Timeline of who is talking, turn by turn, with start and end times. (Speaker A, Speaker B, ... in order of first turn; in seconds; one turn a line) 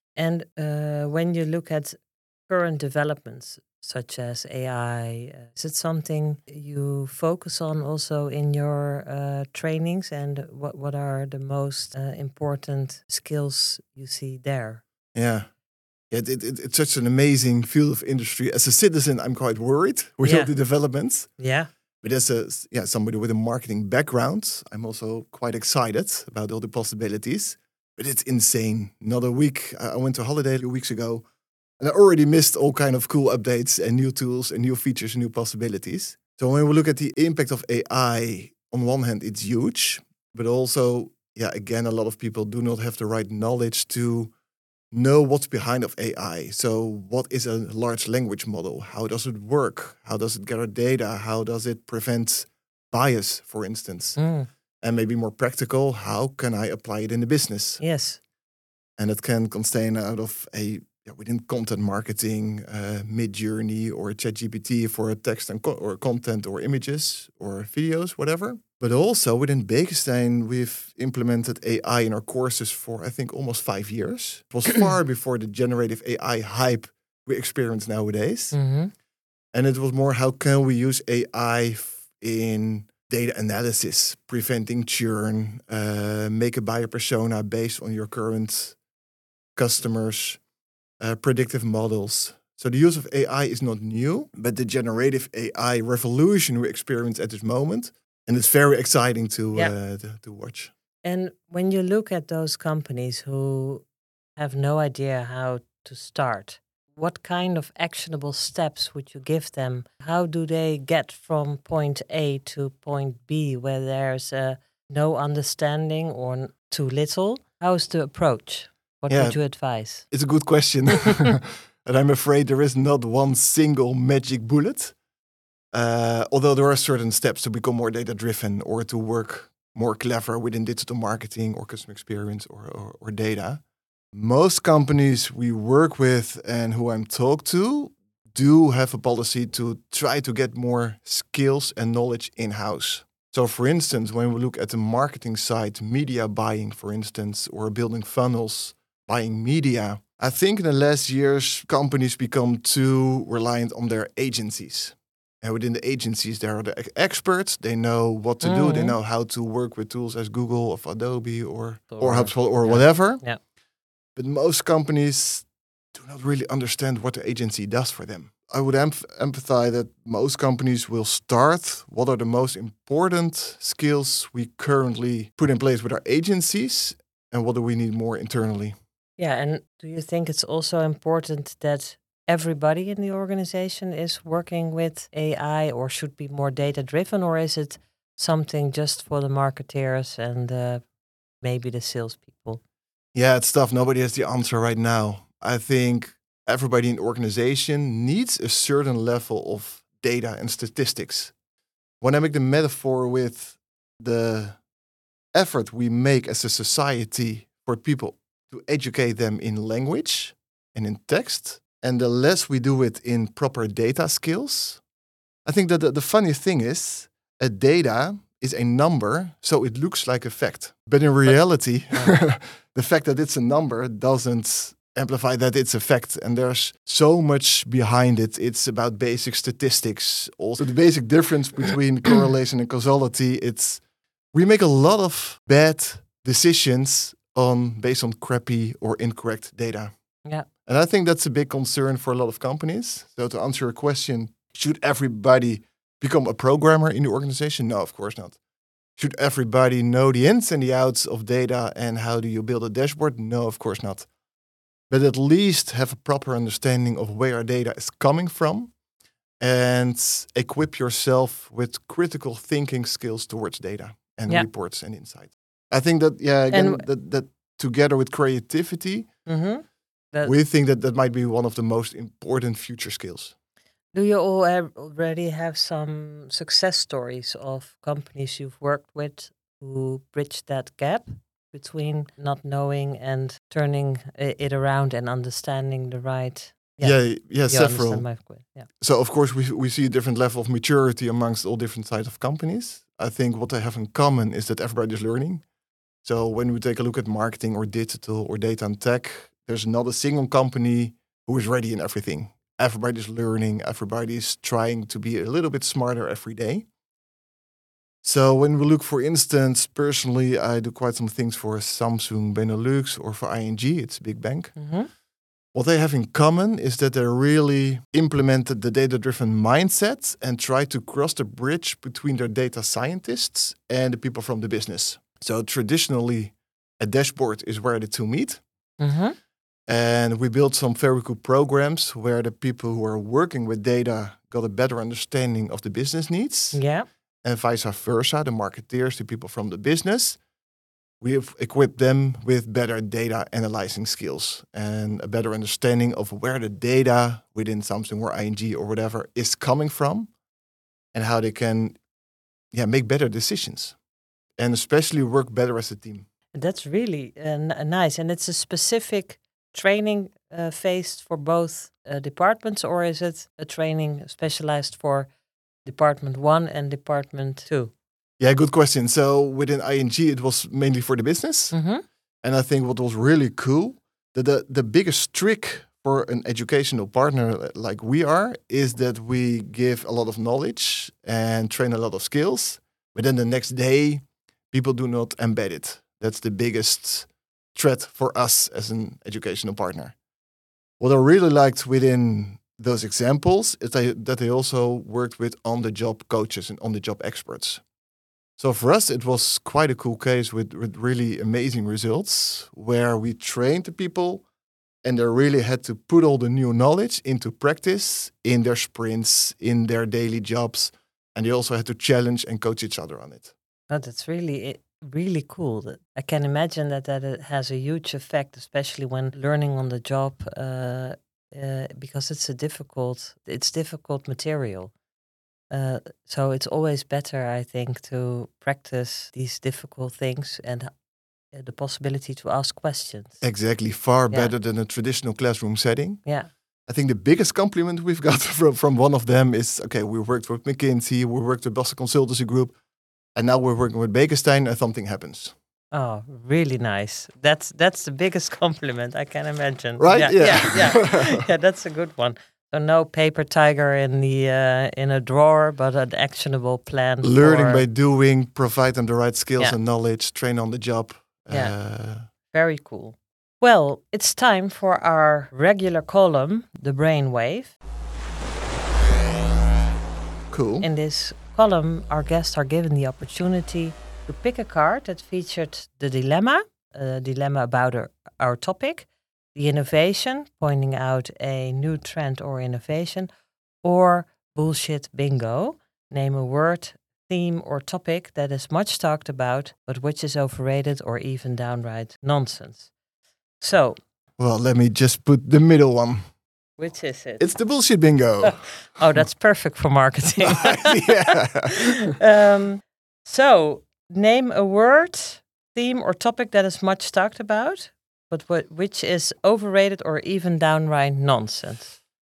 Speaker A: 0.2-14.8
Speaker B: 15.1-15.5
Speaker B: 16.1-21.3
Speaker A: 20.2-20.5
Speaker A: 21.4-21.7
Speaker B: 22.0-31.2
Speaker B: 31.8-44.3
Speaker B: 44.9-54.2
Speaker A: 54.2-54.5
Speaker B: 54.8-57.8
Speaker A: 57.8-58.2
Speaker B: 59.0-78.6
Speaker A: 78.5-78.9
Speaker B: 79.5-88.8
Speaker B: 89.5-90.4
Speaker B: 91.0-100.7
Speaker A: 101.0-103.8
Speaker A: 104.4-120.1
Speaker B: 119.1-119.4
Speaker B: 120.1-125.0
Speaker B: 125.7-133.6
Speaker B: 134.1-163.2
Speaker A: 158.4-158.9
Speaker A: 161.9-163.4
Speaker B: 164.2-178.8
Speaker A: 179.2-190.8
Speaker A: 191.4-192.6
Speaker B: 193.1-201.3
Speaker B: 202.0-204.6
Speaker B: 205.3-214.8
Speaker B: 215.4-233.8
Speaker A: 221.9-222.2
Speaker B: 234.3-239.9
Speaker B: 240.6-248.4
Speaker B: 249.0-254.1
Speaker B: 254.9-258.7
Speaker B: 259.4-269.1
Speaker A: 266.5-266.8
Speaker A: 269.2-270.3
Speaker B: 270.2-273.3
Speaker A: 273.9-288.7
Speaker B: 286.8-288.1
Speaker B: 288.8-295.4
Speaker B: 296.0-306.6
Speaker B: 308.0-314.6
Speaker A: 314.6-314.9
Speaker B: 315.5-328.4
Speaker A: 328.8-329.1
Speaker B: 329.7-336.6
Speaker A: 336.5-336.9
Speaker B: 337.2-340.2
Speaker B: 341.0-350.1
Speaker B: 350.9-351.8
Speaker B: 352.5-353.8
Speaker B: 354.4-356.1
Speaker A: 356.3-365.1
Speaker A: 365.6-367.7
Speaker B: 368.2-371.6
Speaker A: 371.5-371.8
Speaker B: 372.2-389.9
Speaker B: 390.8-397.6
Speaker B: 398.4-404.2
Speaker B: 404.8-413.3
Speaker A: 413.7-424.7
Speaker A: 425.5-430.7
Speaker A: 431.3-433.3
Speaker B: 433.2-436.0
Speaker B: 436.7-442.6
Speaker B: 443.1-445.3
Speaker A: 445.7-457.6
Speaker B: 449.8-451.2
Speaker B: 457.0-462.1
Speaker A: 461.3-461.6
Speaker A: 462.3-467.6
Speaker B: 470.3-470.7
Speaker A: 470.6-483.1
Speaker A: 483.6-492.7
Speaker A: 493.4-493.8
Speaker B: 494.2-496.1
Speaker A: 496.6-497.4
Speaker B: 497.2-498.5
Speaker A: 498.2-511.8
Speaker B: 500.2-501.8